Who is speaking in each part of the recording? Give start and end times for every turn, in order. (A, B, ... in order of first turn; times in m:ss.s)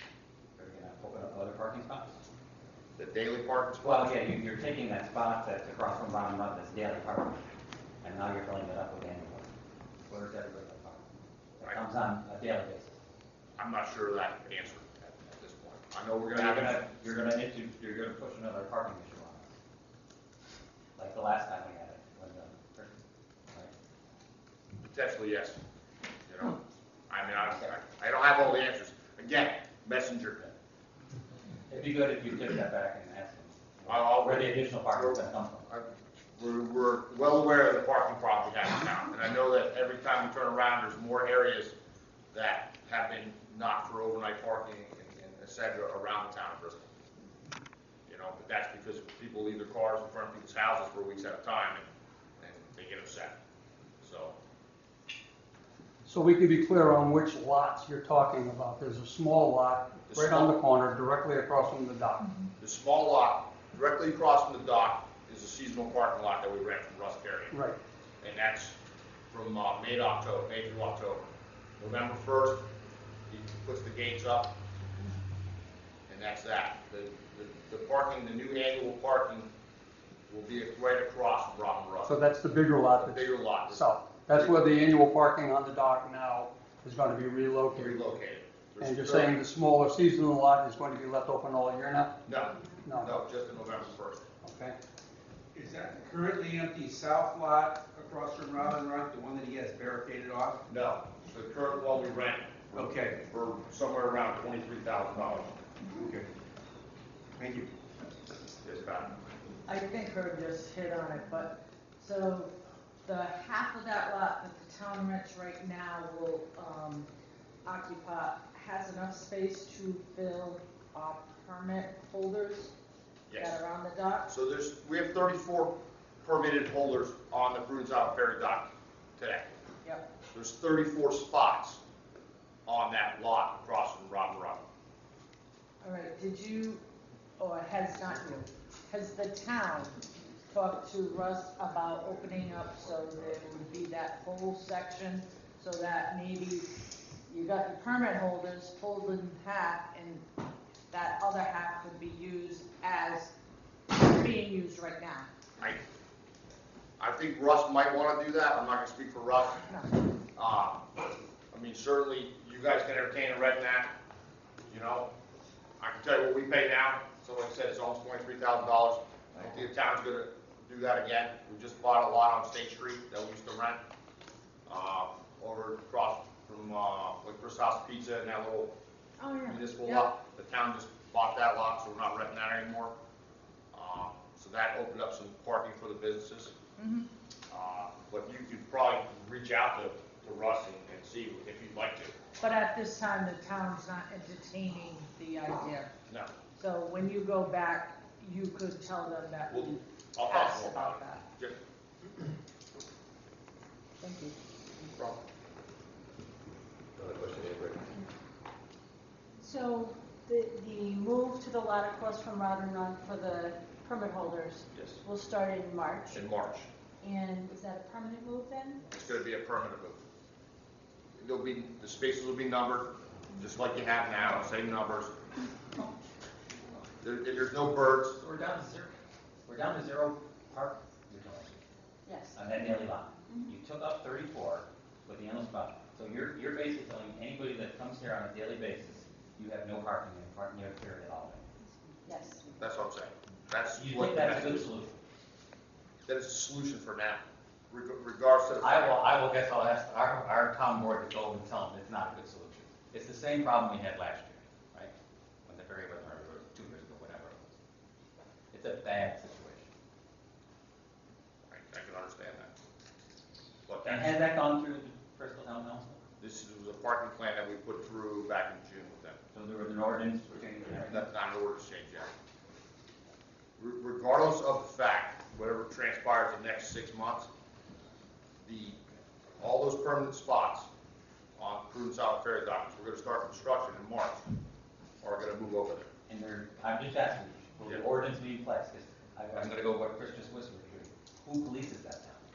0:00.6-0:02.2 A
0:03.0-0:04.1 B
0:03.8-0:07.4 A
0:08.0-0:09.5 A
0:10.1-0:11.0 A
0:11.6-0:13.0 A
0:13.6-0:16.8 B
0:16.3-0:19.5 A
0:21.0-0:23.7 A
0:24.9-0:25.6 B
0:26.3-0:30.5 B
0:31.7-0:35.7 A
0:33.9-0:41.7 B
0:42.3-0:46.8 B
0:48.1-0:51.8 B
0:52.4-0:53.4 B
0:54.0-0:54.3 B
0:56.0-1:02.3 C
1:00.1-1:00.5 B
1:02.6-1:07.5 B
1:07.5-1:07.8 C
1:08.2-1:08.7 B
1:09.3-1:11.2 B
1:11.8-1:12.6 B
1:13.3-1:14.5 B
1:16.1-1:19.5 B
1:20.3-1:22.1 B
1:22.0-1:28.0 C
1:23.0-1:24.7 B
1:27.7-1:29.4 B
1:28.8-1:32.2 C
1:32.2-1:34.2 B
1:32.8-1:33.1 C
1:34.4-1:34.8 C
1:35.5-1:40.6 D
1:40.7-1:45.5 B
1:42.7-1:43.2 D
1:45.9-1:46.3 D
1:47.4-1:47.7 D
1:48.6-1:49.1 B
1:49.6-1:52.5 E
1:53.0-1:57.1 E
1:57.6-2:02.7 E
2:03.3-2:03.6 B
2:03.4-2:04.3 E
2:04.3-2:09.5 B
2:10.3-2:11.8 B
2:12.6-2:14.6 B
2:15.8-2:16.8 E
2:17.4-2:26.7 E
2:27.2-2:30.2 E
2:30.9-2:33.3 E
2:33.9-2:35.3 E
2:37.0-2:39.7 B
2:40.4-2:40.8 B
2:41.5-2:43.9 B
2:44.7-2:45.1 B
2:45.8-2:53.8 B
2:54.6-2:58.7 B
2:59.2-3:00.1 E
2:59.5-3:02.9 B
3:03.7-3:06.5 B
3:06.8-3:07.1 E
3:07.5-3:12.2 B
3:12.4-3:15.9 E
3:16.5-3:21.2 E
3:19.5-3:21.6 B
3:24.0-3:24.4 E
3:24.9-3:25.1 B
3:27.0-3:27.7 B
3:29.4-3:36.2 F
3:34.7-3:35.0 B
3:36.1-3:36.7 B
3:37.0-3:38.9 F
3:38.9-3:40.0 B
3:41.2-3:45.1 B
3:47.0-3:48.2 B
3:48.2-3:48.9 A
3:49.4-3:51.6 A
3:52.0-3:52.4 F
3:52.3-4:01.4 A
3:53.3-3:53.5 F
4:02.0-4:02.5 F
4:02.6-4:04.7 B
4:03.8-4:05.0 A
4:06.0-4:09.0 B
4:08.6-4:14.9 A
4:15.4-4:17.5 A
4:18.5-4:19.7 A
4:21.5-4:22.5 B
4:23.7-4:24.1 B
4:23.8-4:26.0 A
4:26.2-4:29.2 B
4:29.3-4:31.0 A
4:30.8-4:32.1 B
4:33.6-4:37.3 B
4:38.4-4:38.8 B
4:39.4-4:40.7 B
4:41.4-4:44.2 B
4:45.0-4:45.9 B
4:46.1-4:52.2 A